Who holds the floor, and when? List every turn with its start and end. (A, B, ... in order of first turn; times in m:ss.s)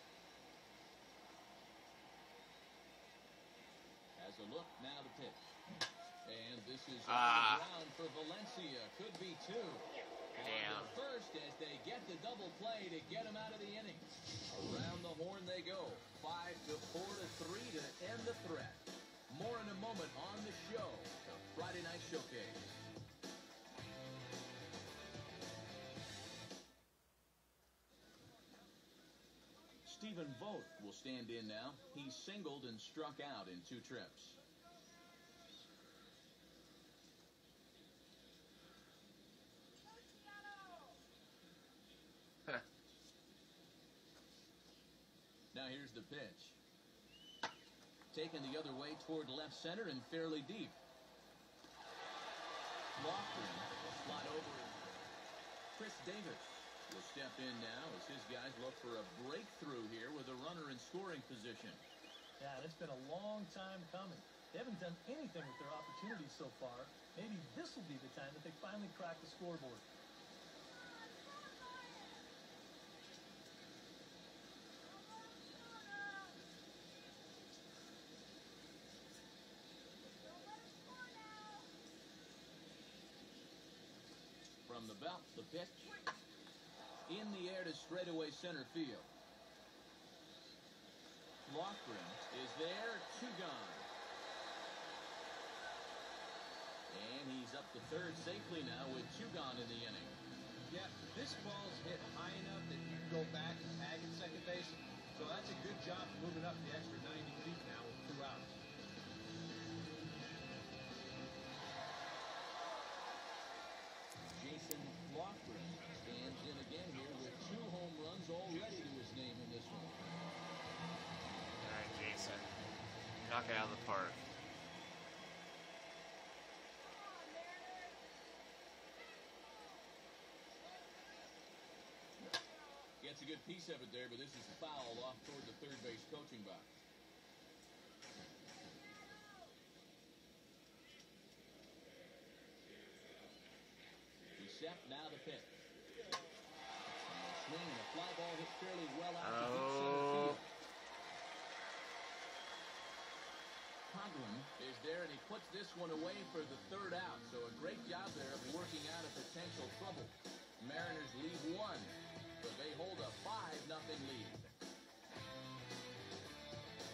0:04.2-0:05.5 A
0:06.2-0:22.8 A
0:07.1-0:07.7 B
0:10.3-0:10.9 B
0:29.8-0:34.4 A
0:45.5-0:46.6 A
0:48.1-0:50.8 A
0:53.0-0:54.8 A
0:55.7-1:01.8 A
1:02.4-1:09.8 C
1:24.6-1:26.0 A
1:27.1-1:29.1 A
1:31.4-1:33.9 A
1:36.9-1:40.2 A
1:40.7-1:48.6 D
1:54.3-2:00.0 A
2:01.6-2:02.5 B
2:03.2-2:04.2 B
2:13.0-2:16.8 A
2:24.4-2:25.6 A
2:26.9-2:30.5 A
2:29.2-2:30.4 B
2:33.9-2:44.6 A